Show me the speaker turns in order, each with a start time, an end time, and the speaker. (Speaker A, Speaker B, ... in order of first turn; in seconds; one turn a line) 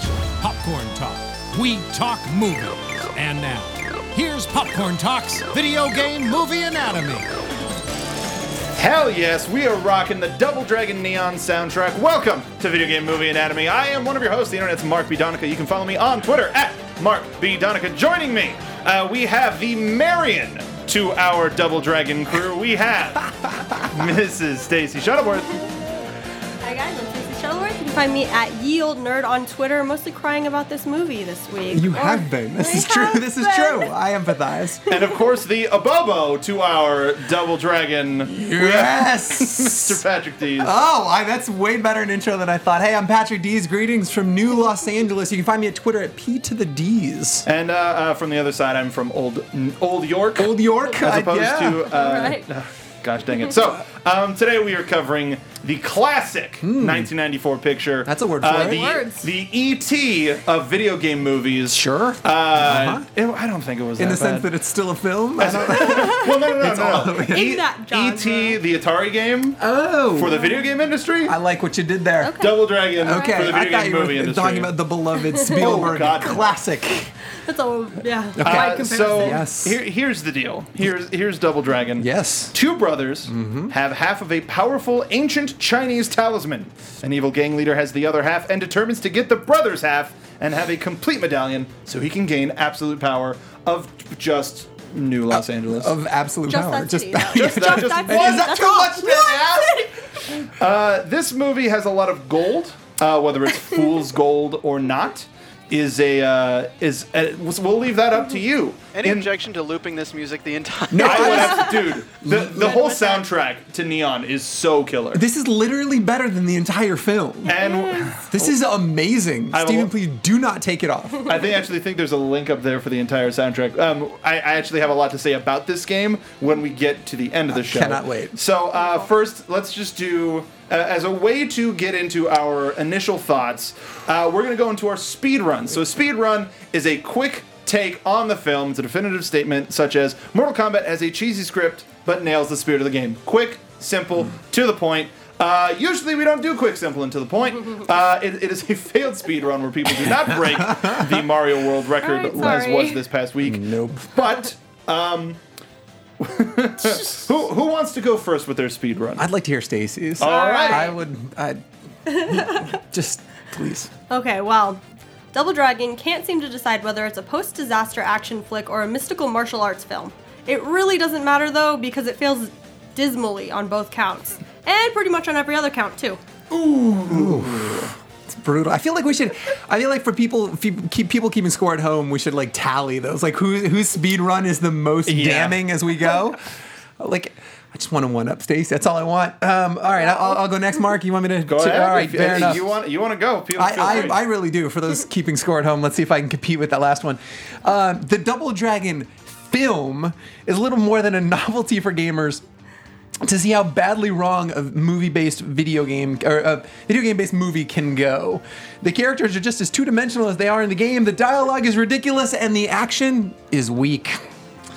Speaker A: 0.4-7.3
Speaker B: 8.8-25.7
Speaker C: 26.6-33.9
Speaker D: 31.7-34.8
Speaker B: 34.9-40.7
Speaker D: 38.2-40.0
Speaker D: 40.6-47.5
Speaker B: 47.5-64.5
Speaker D: 50.4-52.0
Speaker C: 51.9-52.5
Speaker D: 56.6-57.1
Speaker D: 58.0-59.0
Speaker C: 58.5-59.3
Speaker D: 61.7-63.1
Speaker D: 64.0-67.5
Speaker B: 65.4-71.3
Speaker C: 65.9-66.3
Speaker C: 67.3-68.6
Speaker D: 69.6-70.5
Speaker C: 70.3-70.6
Speaker D: 71.3-77.1
Speaker C: 72.2-73.5
Speaker B: 72.4-74.7
Speaker C: 75.3-76.1
Speaker B: 75.5-76.5
Speaker C: 77.3-79.4
Speaker D: 78.3-79.8
Speaker B: 78.4-96.0
Speaker D: 82.0-82.5
Speaker D: 83.3-83.7
Speaker D: 95.3-99.9
Speaker C: 96.5-100.0
Speaker B: 97.3-98.6
Speaker B: 100.5-109.3
Speaker E: 108.9-111.5
Speaker D: 110.9-112.8
Speaker B: 111.0-115.2
Speaker C: 111.1-111.9
Speaker C: 112.6-113.3
Speaker D: 115.1-117.6
Speaker B: 117.5-118.5
Speaker C: 117.5-118.1
Speaker D: 118.3-121.3
Speaker B: 119.5-119.9
Speaker B: 121.2-155.4
Speaker D: 127.5-128.4
Speaker D: 150.3-151.2
Speaker C: 152.0-153.0
Speaker D: 153.4-154.2
Speaker B: 156.2-159.3
Speaker D: 159.2-163.9
Speaker B: 160.2-160.9
Speaker C: 160.2-161.0
Speaker C: 162.1-162.6
Speaker C: 164.1-164.8
Speaker C: 165.3-176.2
Speaker B: 176.5-177.9
Speaker D: 177.1-186.4
Speaker B: 185.1-185.6
Speaker D: 187.0-192.7
Speaker C: 190.0-190.4
Speaker B: 191.5-194.2
Speaker D: 193.6-202.4
Speaker D: 203.2-214.2